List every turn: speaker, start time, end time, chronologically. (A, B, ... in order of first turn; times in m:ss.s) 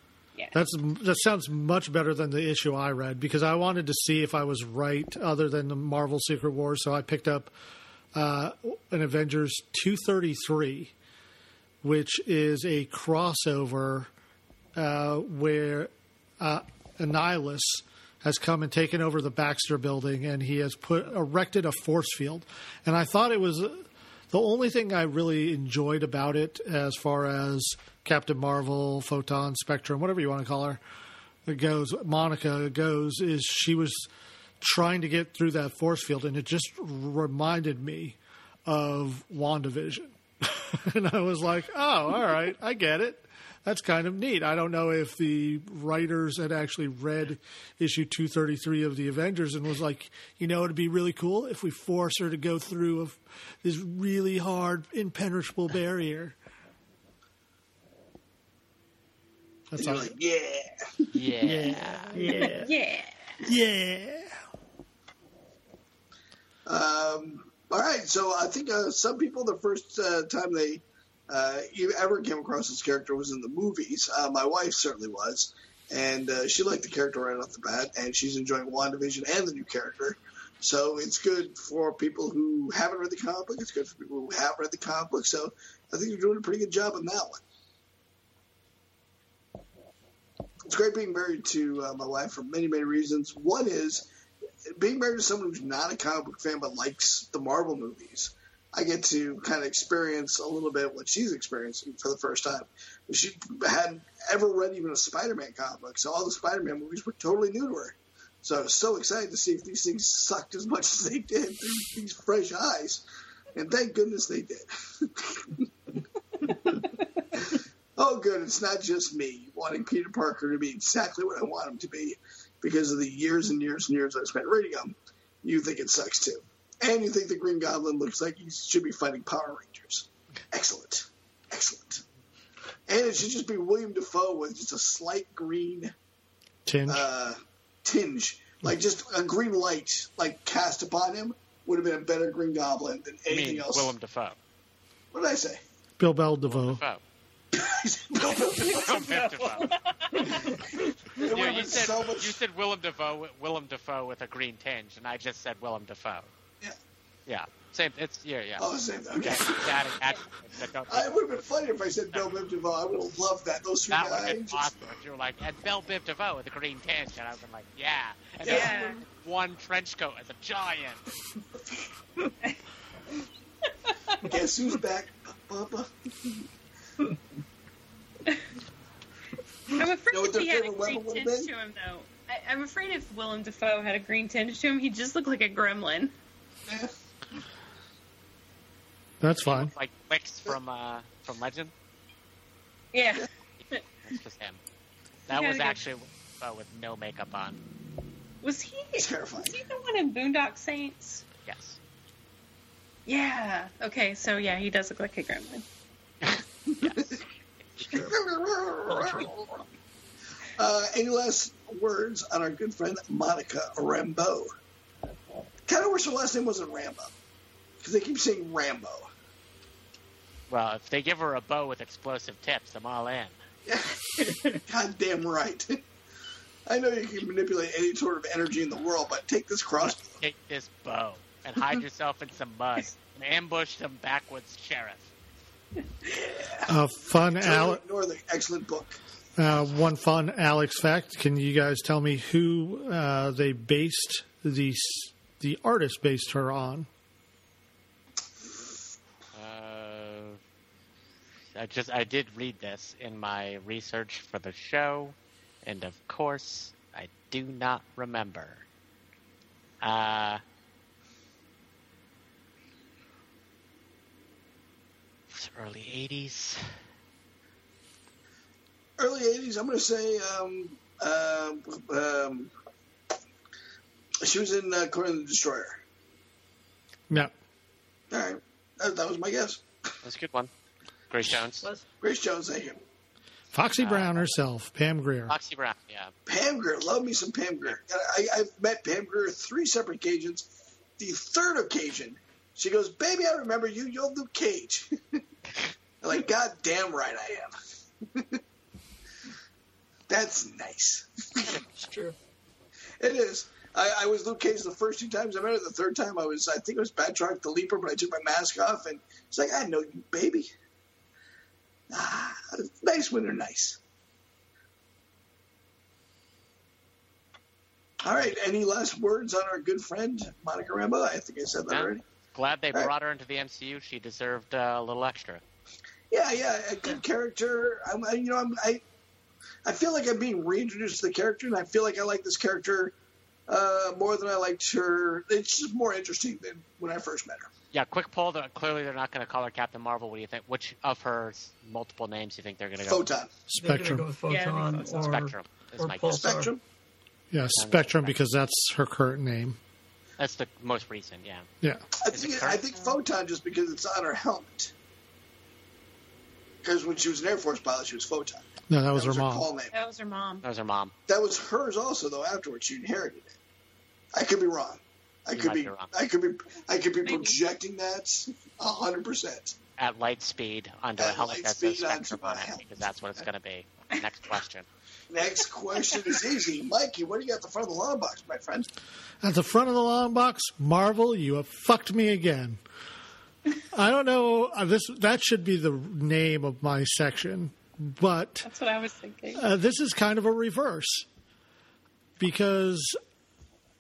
0:00.5-0:07.5 A
0:08.1-0:10.9 A
0:11.8-0:14.1 A
0:14.8-0:30.8 A
0:31.5-0:34.1 A
0:34.6-0:56.4 A
0:59.7-1:00.1 A
0:59.8-1:01.1 B
1:01.1-1:02.1 C
1:01.4-1:02.4 A
1:02.1-1:02.7 D
1:02.4-1:03.4 E
1:03.4-1:04.4 A
1:06.7-1:27.4 B
1:30.7-1:34.1 B
1:34.8-1:55.7 B
1:57.4-2:12.0 B
2:12.9-2:15.9 B
2:16.7-2:17.1 A
2:16.9-2:23.9 B
2:23.3-2:24.4 C
2:25.1-2:25.6 B
2:26.0-2:26.8 A
2:26.5-2:27.0 C
2:27.5-2:29.2 B
2:28.6-2:29.7 C
2:29.0-2:30.5 E
2:30.2-2:31.2 D
2:31.2-2:32.4 B
2:31.2-2:36.3 C
2:37.3-2:41.2 C
2:38.6-2:40.0 B
2:40.9-2:44.7 B
2:42.1-2:42.5 C
2:43.9-2:51.1 C
2:48.4-2:49.0 B
2:48.5-2:49.0 E
2:53.8-2:54.2 E
2:54.2-2:56.4 B
2:59.7-3:06.1 E
3:00.1-3:01.5 B
3:06.7-3:06.9 B
3:09.2-3:09.7 A
3:09.4-3:11.7 C
3:12.9-3:13.8 E
3:14.0-3:14.6 C
3:15.3-3:17.6 C
3:15.3-3:15.8 E
3:18.4-3:21.2 E
3:19.0-3:19.6 B
3:21.4-3:21.8 C
3:23.1-3:25.6 E
3:26.2-3:27.2 C
3:26.7-3:27.2 B
3:27.8-3:28.1 C
3:27.9-3:29.7 B
3:28.9-3:29.2 D
3:30.6-3:34.5 B
3:35.7-3:37.1 B
3:37.8-3:39.1 B
3:40.5-3:43.4 C
3:43.7-3:44.0 B
3:44.1-3:44.6 D
3:44.7-3:45.8 B
3:46.7-3:50.0 B
3:49.8-3:55.1 C
3:56.1-3:56.8 B
3:56.7-3:57.8 A
3:57.4-3:59.0 B
3:59.4-4:06.9 A
4:09.3-4:10.4 C
4:11.6-4:18.6 C
4:19.8-4:20.4 C
4:25.3-4:26.8 C
4:29.0-4:32.5 B
4:34.2-4:35.8 B
4:38.1-4:39.6 B
4:40.0-4:40.5 C
4:41.1-4:41.6 C
4:42.0-4:42.8 B
4:43.5-4:45.4 A
4:43.8-4:44.2 C
4:45.3-4:46.1 C
4:46.3-4:50.5 B
4:51.0-4:55.2 B
4:56.0-4:57.5 B
5:00.1-5:01.6 B
5:01.8-5:02.2 D
5:03.0-5:10.5 B
5:11.9-5:13.8 B
5:18.0-5:22.0 B
5:21.7-5:25.4 C
5:26.1-5:28.8 B
5:29.6-5:32.9 B
5:33.5-5:37.5 B
5:37.7-5:43.0 C
5:42.8-5:43.3 B
5:43.5-5:44.1 A
5:43.6-5:46.5 D
5:44.3-5:45.2 E
5:44.9-5:46.2 C
5:46.1-5:46.6 B
5:47.3-5:49.6 A
5:47.6-5:48.2 C
5:50.2-5:51.5 C
5:52.0-5:54.7 B
5:52.1-5:52.7 C
5:56.6-5:59.7 B
5:58.7-5:59.5 A
5:59.7-6:00.4 E
6:00.4-6:00.9 C
6:01.1-6:03.4 B
6:04.1-6:09.6 B
6:05.3-6:05.9 C
6:07.0-6:07.4 E
6:09.8-6:14.7 C
6:11.0-6:13.2 B
6:15.1-6:18.7 B
6:19.2-6:22.6 A
6:23.7-6:28.5 A
6:28.4-6:29.5 E
6:29.4-6:31.1 A
6:32.2-6:33.0 A